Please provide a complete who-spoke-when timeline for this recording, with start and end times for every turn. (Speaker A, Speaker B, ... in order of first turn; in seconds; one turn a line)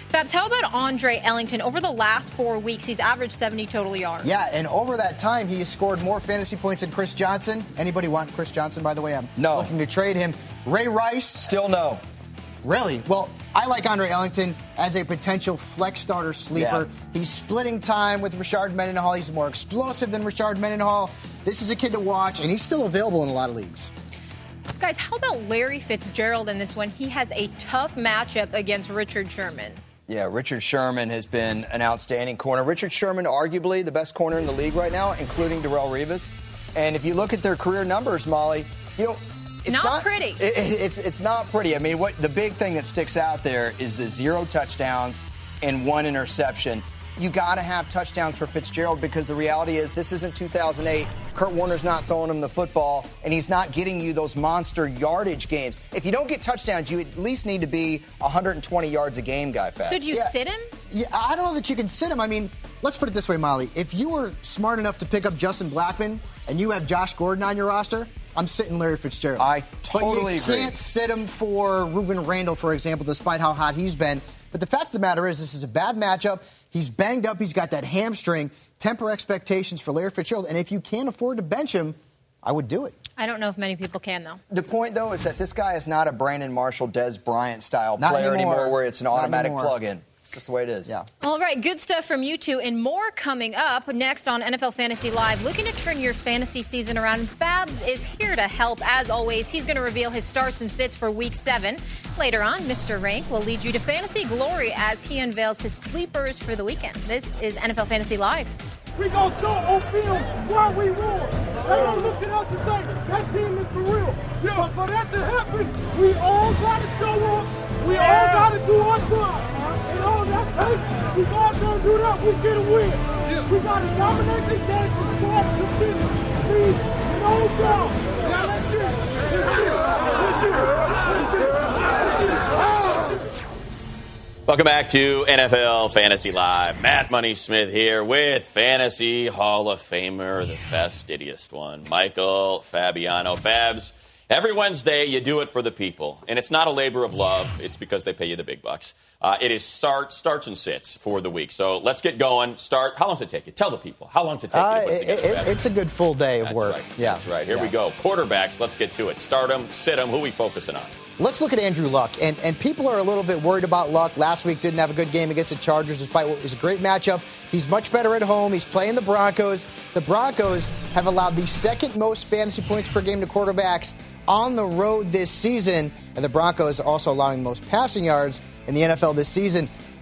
Speaker A: 0.1-4.3
Speaker B: 4.2-11.5
Speaker C: 9.4-9.7
Speaker C: 11.4-12.0
Speaker B: 12.6-23.9
Speaker C: 16.6-16.9
Speaker A: 24.8-29.8
Speaker C: 30.1-60.0
Speaker A: 39.7-40.4
Speaker A: 59.9-60.7
Speaker B: 60.9-82.9
Speaker C: 69.4-70.7
Speaker A: 83.2-84.4
Speaker C: 84.5-90.9
Speaker B: 88.0-89.8
Speaker A: 91.2-108.5
Speaker D: 109.0-131.3
Speaker E: 134.5-155.6
Speaker B: 154.5-157.7
Speaker E: 156.4-161.0
Speaker B: 161.2-179.7